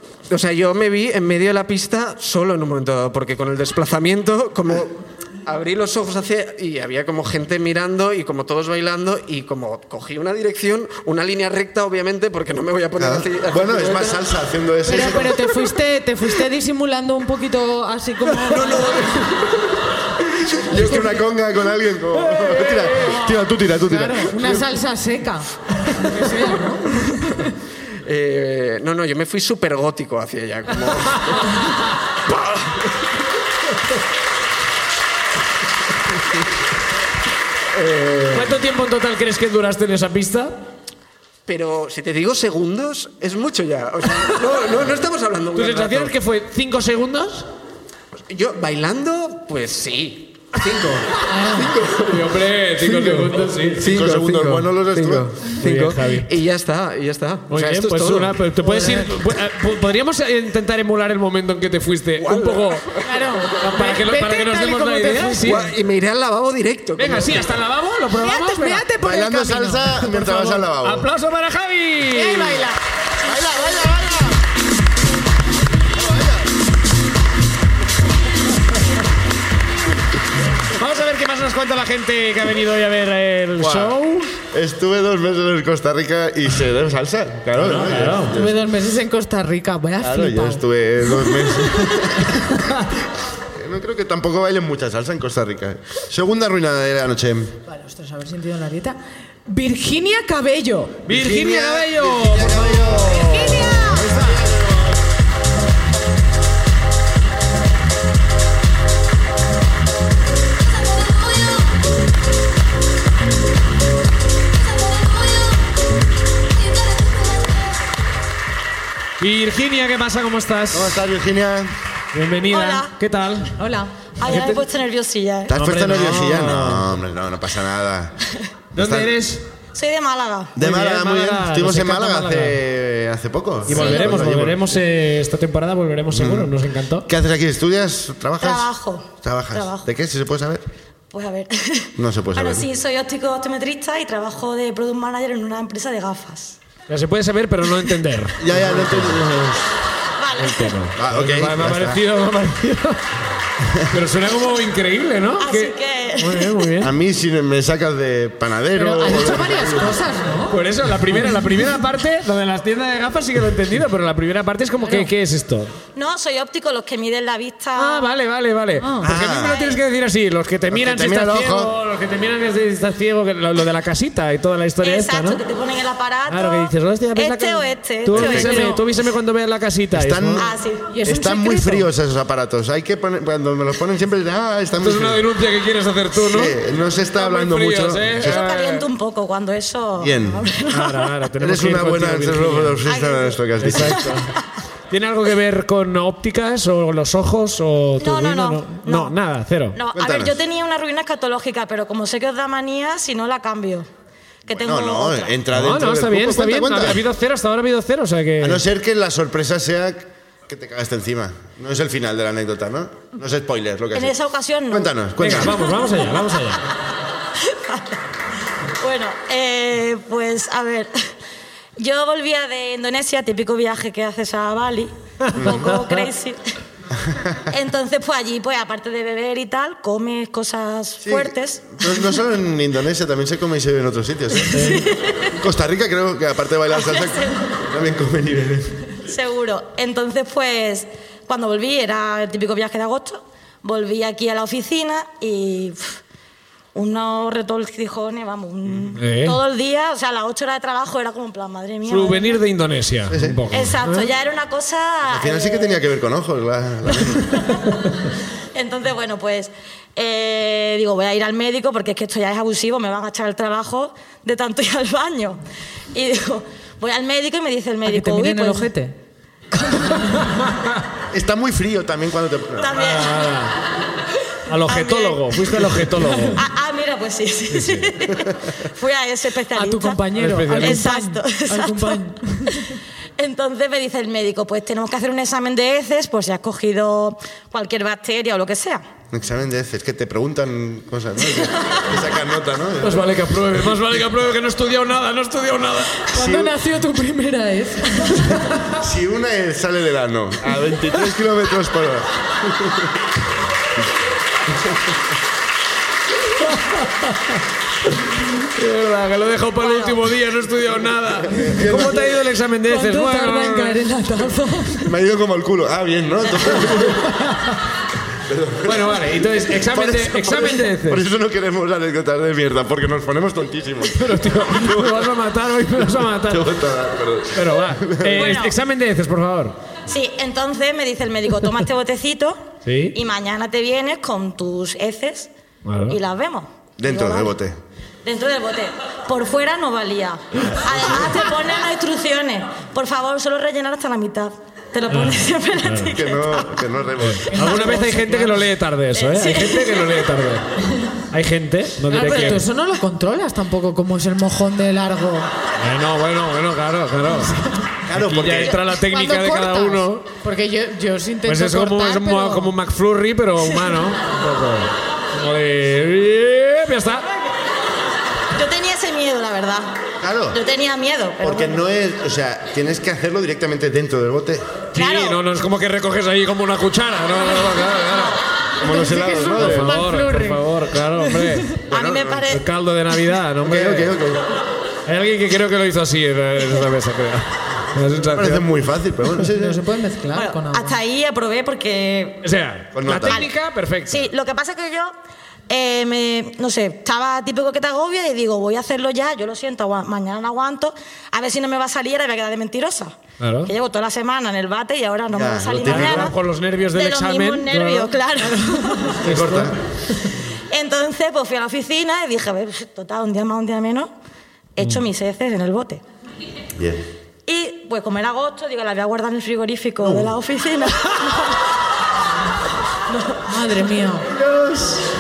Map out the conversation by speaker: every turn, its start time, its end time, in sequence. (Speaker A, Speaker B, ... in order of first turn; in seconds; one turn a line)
Speaker A: 0.3-14.2
Speaker B: 13.0-15.4
Speaker C: 14.9-19.0
Speaker A: 18.4-19.6
Speaker A: 20.4-21.1
Speaker B: 20.7-24.7
Speaker D: 22.4-22.8
Speaker C: 23.0-27.5
Speaker A: 28.0-31.6
Speaker D: 31.1-31.4
Speaker A: 32.3-32.9
Speaker A: 37.7-38.6
Speaker D: 38.3-40.6
Speaker A: 41.5-46.1
Speaker D: 45.5-47.5
Speaker A: 48.3-59.1
Speaker C: 51.3-51.7
Speaker D: 52.1-53.9
Speaker B: 53.9-55.3
Speaker D: 55.6-56.3
Speaker D: 57.5-62.9
Speaker A: 62.2-63.1
Speaker C: 63.0-65.6
Speaker D: 63.6-65.7
Speaker A: 65.4-67.6
Speaker D: 67.0-68.8
Speaker C: 68.1-70.5
Speaker B: 69.0-71.1
Speaker D: 70.2-72.7
Speaker C: 72.1-72.8
Speaker B: 73.2-74.4
Speaker B: 75.9-76.5
Speaker D: 80.7-84.3
Speaker B: 83.6-84.0
Speaker B: 84.5-88.6
Speaker D: 87.6-88.4
Speaker C: 88.3-90.6
Speaker B: 90.0-92.6
Speaker C: 91.7-91.9
Speaker B: 93.5-97.6
Speaker C: 97.7-101.0
Speaker D: 101.1-104.4
Speaker B: 101.1-105.0
Speaker C: 103.1-104.0
Speaker D: 119.2-121.0
Speaker B: 120.7-121.7
Speaker D: 122.1-123.6
Speaker E: 122.5-122.9
Speaker C: 123.6-123.9
Speaker E: 124.2-125.6
Speaker D: 124.2-124.6
Speaker B: 125.5-128.2
Speaker D: 125.5-126.9
Speaker D: 128.8-129.4
Speaker B: 128.8-129.2
Speaker E: 129.7-130.6
Speaker B: 130.6-134.8
Speaker D: 130.6-132.6
Speaker D: 133.7-137.1
Speaker E: 133.7-134.2
Speaker B: 136.1-136.6
Speaker B: 137.1-138.7
Speaker E: 138.4-139.8
Speaker B: 139.2-140.6
Speaker E: 141.1-146.6
Speaker B: 142.0-142.7
Speaker D: 146.9-149.7
Speaker B: 148.4-149.4
Speaker E: 150.2-150.8
Speaker D: 150.4-153.0
Speaker B: 150.9-152.0
Speaker D: 153.9-156.9
Speaker E: 155.4-156.7
Speaker B: 156.8-160.0
Speaker C: 158.8-160.6
Speaker D: 160.5-165.8
Speaker C: 164.8-165.1
Speaker E: 165.9-168.1
Speaker D: 167.8-175.4
Speaker C: 168.8-169.1
Speaker B: 169.0-169.6
Speaker E: 169.3-169.8
Speaker B: 170.7-171.7
Speaker E: 174.8-178.9
Speaker D: 176.3-180.5
Speaker B: 178.1-178.4
Speaker C: 178.3-178.8
Speaker B: 179.9-180.5
Speaker E: 180.4-180.9
Speaker C: 180.9-181.9
Speaker B: 181.0-185.2
Speaker D: 184.8-186.6
Speaker B: 186.2-188.4
Speaker D: 187.2-188.9
Speaker E: 188.2-191.1
Speaker B: 190.0-190.5
Speaker D: 190.7-192.8
Speaker B: 191.4-194.1
Speaker E: 192.8-194.2
Speaker D: 193.6-194.3
Speaker D: 194.9-199.8
Speaker E: 198.0-199.2
Speaker E: 199.8-203.9
Speaker B: 199.9-200.4
Speaker E: 204.5-205.4
Speaker B: 204.5-207.0
Speaker D: 205.5-208.6
Speaker B: 208.4-214.2
Speaker E: 213.9-215.7
Speaker B: 214.7-215.6
Speaker D: 215.2-216.6
Speaker E: 217.4-218.0
Speaker E: 218.8-220.9
Speaker E: 221.8-226.4
Speaker D: 225.3-226.0
Speaker B: 225.3-225.8
Speaker B: 227.1-227.4
Speaker E: 227.5-232.1
Speaker B: 231.0-234.8
Speaker D: 234.5-234.8
Speaker E: 234.6-235.3
Speaker B: 235.3-238.9
Speaker E: 236.7-237.4
Speaker E: 239.1-246.0
Speaker E: 246.7-252.4
Speaker D: 249.0-249.4
Speaker D: 251.8-254.1
Speaker B: 253.1-253.4
Speaker E: 253.5-255.8
Speaker B: 255.1-257.4
Speaker E: 258.5-265.4
Speaker E: 265.9-268.7
Speaker C: 267.8-268.9
Speaker E: 269.5-270.2
Speaker B: 271.1-272.8
Speaker E: 272.6-273.3
Speaker D: 272.7-273.6
Speaker D: 274.5-276.4
Speaker E: 274.6-288.8
Speaker D: 277.5-277.9
Speaker C: 279.5-282.8
Speaker D: 280.2-280.9
Speaker B: 289.1-293.1
Speaker E: 291.3-291.8
Speaker D: 292.8-296.0
Speaker B: 296.1-296.6
Speaker C: 296.1-298.3
Speaker B: 298.7-302.9
Speaker D: 308.6-313.8
Speaker E: 309.6-310.0
Speaker B: 311.3-312.2
Speaker C: 312.7-314.9
Speaker B: 314.8-317.1
Speaker D: 317.0-317.5
Speaker B: 318.2-325.1
Speaker D: 318.6-321.1
Speaker D: 323.9-326.5
Speaker B: 326.0-328.4
Speaker D: 327.4-329.6
Speaker E: 328.1-328.6
Speaker E: 329.9-332.4
Speaker D: 332.6-333.0
Speaker E: 332.9-335.3
Speaker D: 335.6-336.0
Speaker E: 335.9-337.3
Speaker B: 336.8-337.6
Speaker E: 338.0-346.5
Speaker D: 344.9-345.9
Speaker B: 345.9-347.3
Speaker D: 347.0-350.4
Speaker C: 347.3-348.4
Speaker E: 348.9-350.0
Speaker D: 351.1-352.4
Speaker C: 351.9-355.3
Speaker D: 355.6-357.3
Speaker B: 357.9-358.6
Speaker D: 357.9-360.0
Speaker C: 358.9-362.6
Speaker D: 361.3-367.1
Speaker E: 368.3-369.7
Speaker B: 370.0-370.4
Speaker E: 370.3-371.6
Speaker B: 371.2-374.6
Speaker E: 374.7-375.2
Speaker D: 374.7-378.2
Speaker B: 378.6-379.8
Speaker C: 378.7-381.3
Speaker D: 379.3-381.6
Speaker B: 381.7-382.2
Speaker E: 381.7-382.4
Speaker D: 382.3-383.9
Speaker B: 383.4-384.3
Speaker D: 384.9-388.4
Speaker B: 388.1-389.6
Speaker C: 389.3-390.8
Speaker E: 390.1-392.2
Speaker D: 392.2-394.1
Speaker B: 392.7-393.3
Speaker E: 393.9-394.9
Speaker E: 395.5-406.2
Speaker D: 403.2-403.5
Speaker B: 405.1-406.1
Speaker D: 405.6-409.6
Speaker E: 406.7-409.0
Speaker B: 409.0-409.6
Speaker E: 410.5-413.9
Speaker E: 414.6-415.8
Speaker B: 416.6-416.8
Speaker E: 417.3-421.4
Speaker B: 419.8-420.1
Speaker E: 422.9-423.2
Speaker C: 423.3-424.1
Speaker D: 424.1-424.9